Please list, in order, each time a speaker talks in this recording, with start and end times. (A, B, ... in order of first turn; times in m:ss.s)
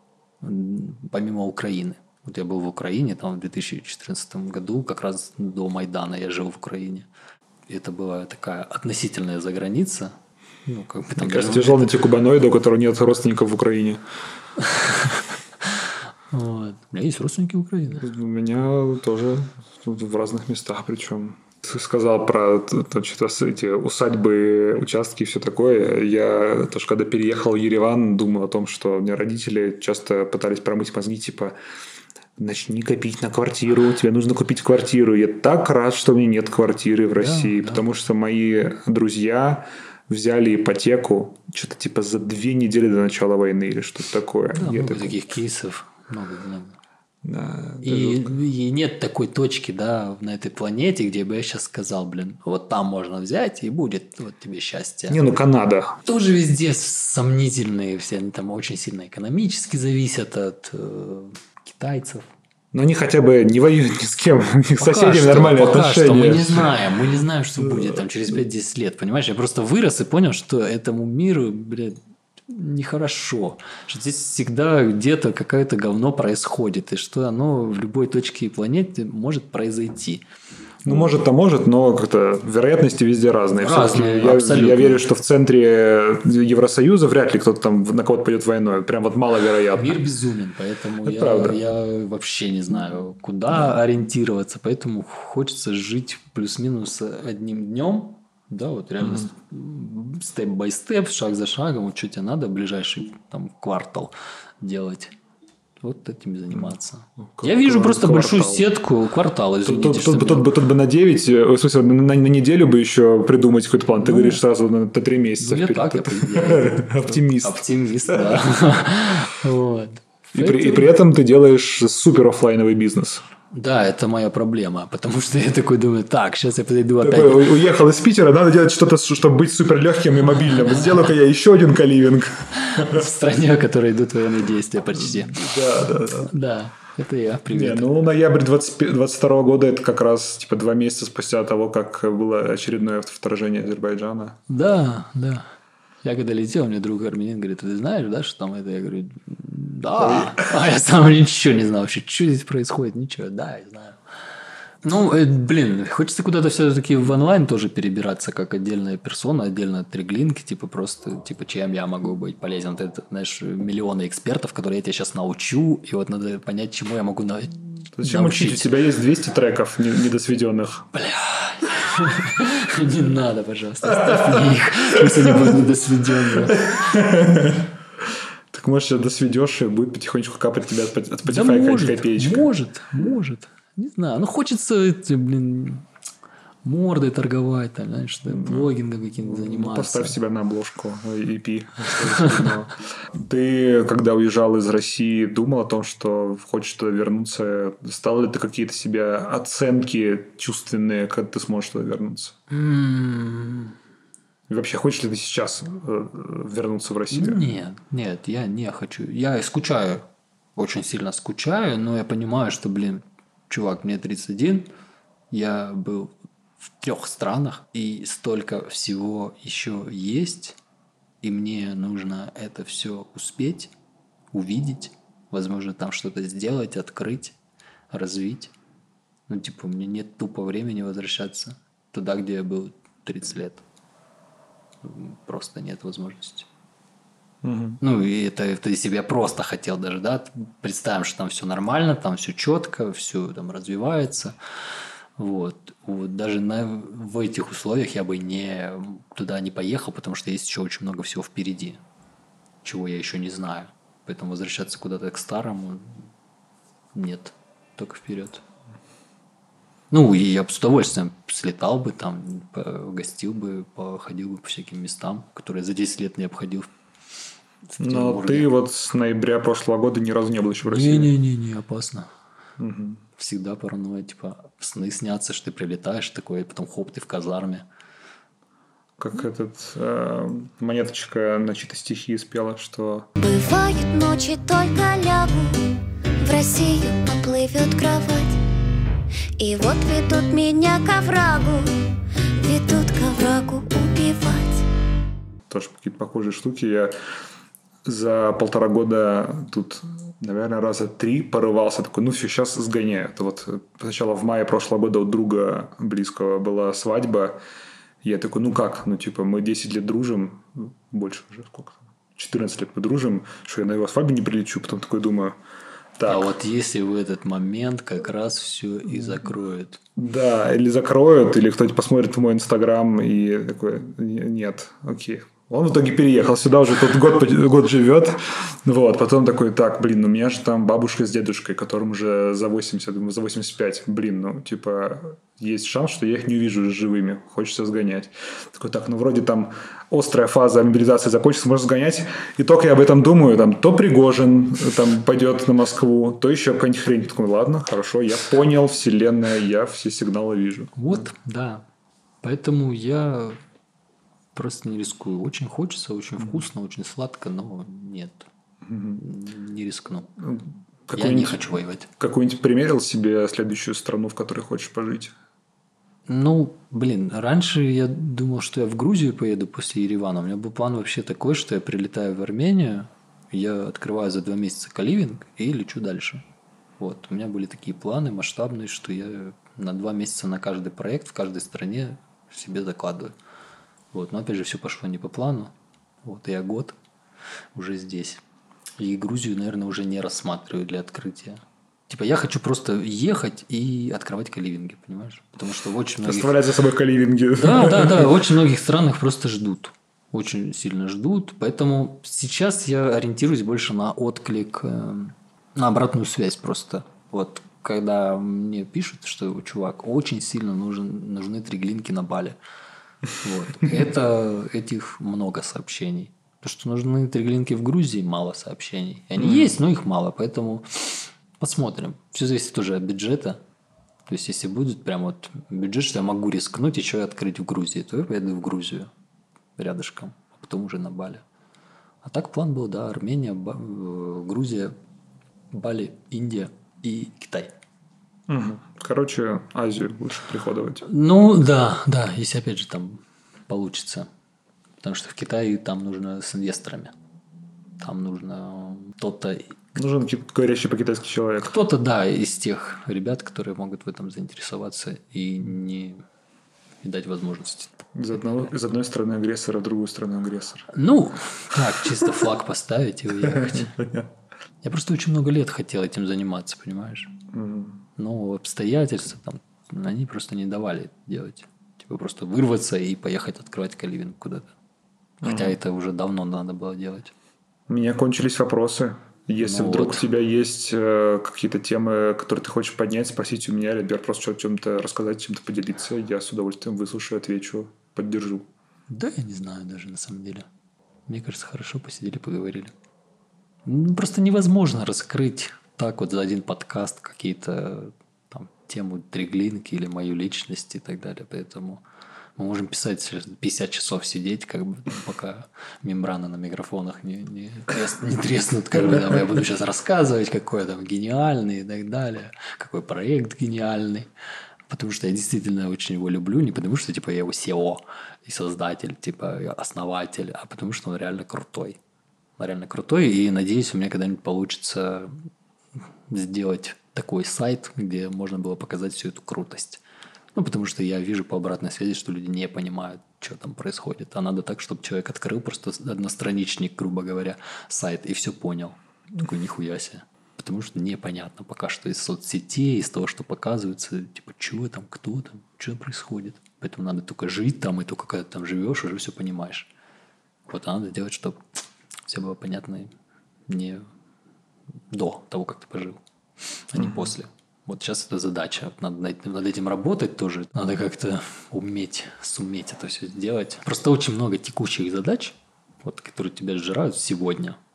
0:00.4-0:07.1 A
0:07.7-0:10.1 A
0:10.7-0:11.9 A
0:11.2-0:14.0 B
0:14.6-0:18.0 A
0:18.0-0:31.6 B
0:32.4-0:45.2 B
0:37.2-0:37.8 A
0:44.5-0:46.8 A
0:47.2-0:48.4 B
0:47.8-0:55.2 A
0:55.1-0:56.0 B
0:56.0-1:02.3 A
1:02.7-1:06.8 B
1:04.8-1:20.2 A
1:07.6-1:08.0 B
1:20.8-1:30.0 B
1:23.6-1:25.0 A
1:29.8-1:45.2 A
1:31.0-1:31.6 B
1:45.8-1:50.5 A
1:47.3-1:48.7 B
1:49.7-1:58.5 B
1:54.0-1:54.4 A
1:55.4-2:01.0 A
2:00.4-2:03.2 B
2:03.5-2:07.6 A
2:07.0-2:13.1 B
2:12.6-2:15.6 A
2:14.9-2:16.3 B
2:16.1-2:17.9 A
2:17.5-2:24.4 B
2:24.5-2:25.5 A
2:26.0-2:34.0 A
2:30.0-2:30.5 B
2:34.8-2:48.8 A
2:48.0-2:50.9 B
2:50.9-2:57.1 A
2:53.9-3:02.5 B
3:01.3-3:05.9 A
3:06.6-3:10.2 A
3:08.3-3:22.4 B
3:12.0-3:12.6 A
3:22.5-3:23.8 A
3:24.5-3:27.4 B
3:27.1-3:30.0 A
3:30.6-3:34.7 A
3:35.3-3:36.1 A
3:36.7-3:40.6 A
3:41.2-3:43.7 A
3:44.3-3:47.4 A
3:47.9-3:48.5 A
3:49.3-3:53.6 A
3:54.8-3:56.5 A
3:57.4-3:57.8 B
3:57.8-4:04.4 A
4:05.2-4:11.8 A
4:12.6-4:16.1 A
4:16.9-4:18.4 A
4:19.9-4:26.7 A
4:27.7-4:28.5 A
4:27.8-4:31.1 B
4:30.7-4:32.1 A
4:32.6-4:33.0 B
4:33.2-4:37.6 A
4:39.0-4:43.1 B
4:43.2-4:48.4 C
4:49.4-4:54.7 C
4:55.5-4:56.9 B
4:57.8-5:07.4 B
5:08.0-5:15.4 B
5:16.0-5:16.3 B
5:16.1-5:19.8 A
5:20.0-5:51.0 B
5:50.8-5:51.6 A
5:52.2-5:53.4 A
5:54.4-5:58.3 A
5:58.6-5:59.0 B
5:59.0-6:00.1 A
6:00.2-6:01.5 B
6:00.9-6:01.9 A
6:02.0-6:05.1 B
6:06.1-6:16.2 A
6:16.8-6:23.1 A
6:23.9-6:25.5 A
6:26.0-6:26.8 A
6:27.6-6:28.2 A
6:28.8-6:36.3 A
6:36.0-6:38.2 B
6:37.4-6:52.4 A
6:53.1-7:03.4 A
6:59.2-6:59.6 B
7:04.1-7:08.9 A
7:09.6-7:11.2 A
7:12.0-7:14.7 A
7:15.5-7:17.5 A
7:18.3-7:20.8 B
7:20.8-7:24.1 A
7:24.8-7:26.9 A
7:27.8-7:29.6 A
7:29.8-7:31.6 B
7:31.4-7:36.0 A
7:36.8-7:37.8 A
7:38.0-7:40.7 B
7:40.7-7:43.8 A
7:43.2-7:44.1 B
7:44.6-7:47.2 A
7:47.3-7:47.8 B
7:48.0-7:54.5 A
7:55.2-7:55.6 B
7:55.2-7:57.1 A
7:57.7-8:08.5 B
7:59.4-8:00.0 A
8:08.9-8:10.4 A
8:11.1-8:12.7 A
8:13.6-8:21.8 A
8:22.4-8:34.1 A
8:34.7-8:41.8 A
8:42.4-8:45.2 A
8:46.1-8:49.8 A
8:50.4-9:09.7 A
9:10.5-9:11.4 A
9:12.1-9:12.9 A
9:13.5-9:13.8 A
9:14.9-9:16.0 A
9:16.7-9:27.6 A
9:16.8-9:17.1 B